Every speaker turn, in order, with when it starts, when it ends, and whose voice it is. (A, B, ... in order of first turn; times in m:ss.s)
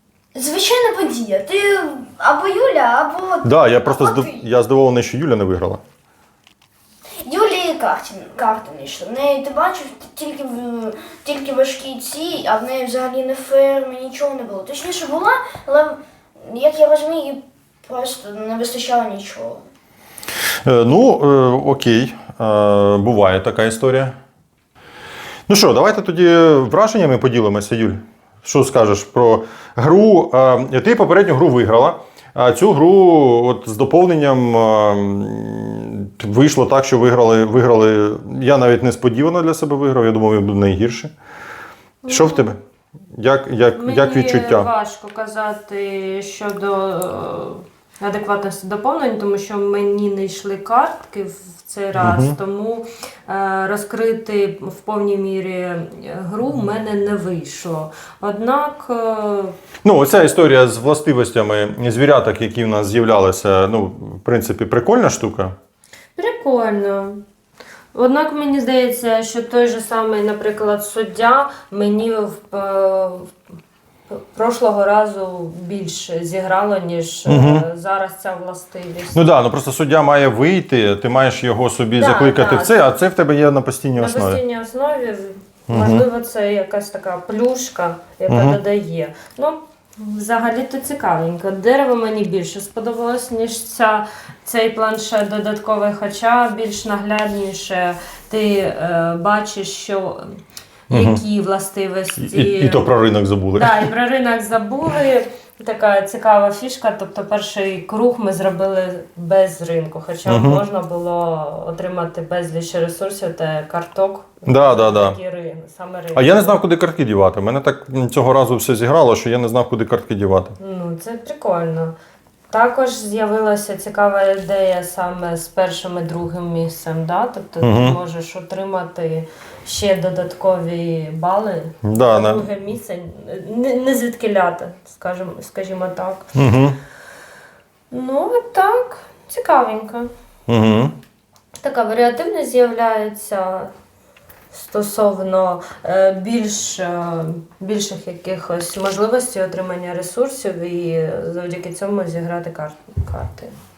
0:00.3-0:04.4 A
0:03.4-0:05.8 B
0:07.2-0:19.6 A
0:20.6-0:24.1 B
0:25.5-0:41.1 B
0:42.0-0:42.5 C
0:42.1-0:42.6 B
0:43.1-0:44.7 B
0:43.8-0:59.6 C
0:52.0-0:52.4 B
0:59.8-1:05.6 B
1:06.2-1:07.2 C
1:07.9-1:13.3 C
1:14.1-1:19.2 C
1:17.2-1:17.6 B
1:19.1-1:24.4 B
1:21.9-1:22.8 C
1:24.0-1:40.4 C
1:25.7-1:26.1 B
1:28.3-1:28.6 B
1:40.9-1:42.8 C
1:40.9-1:41.2 B
1:42.2-1:43.9 B
1:43.5-1:56.6 C
1:50.2-1:50.6 B
1:54.4-1:55.2 B
1:56.1-2:00.6 B
2:00.6-2:01.9 C
2:02.5-2:16.3 C
2:07.6-2:08.0 B
2:11.8-2:12.5 B
2:16.3-2:16.8 B
2:17.9-2:20.1 C
2:20.5-2:20.9 B
2:21.6-2:23.7 C
2:24.5-2:33.5 C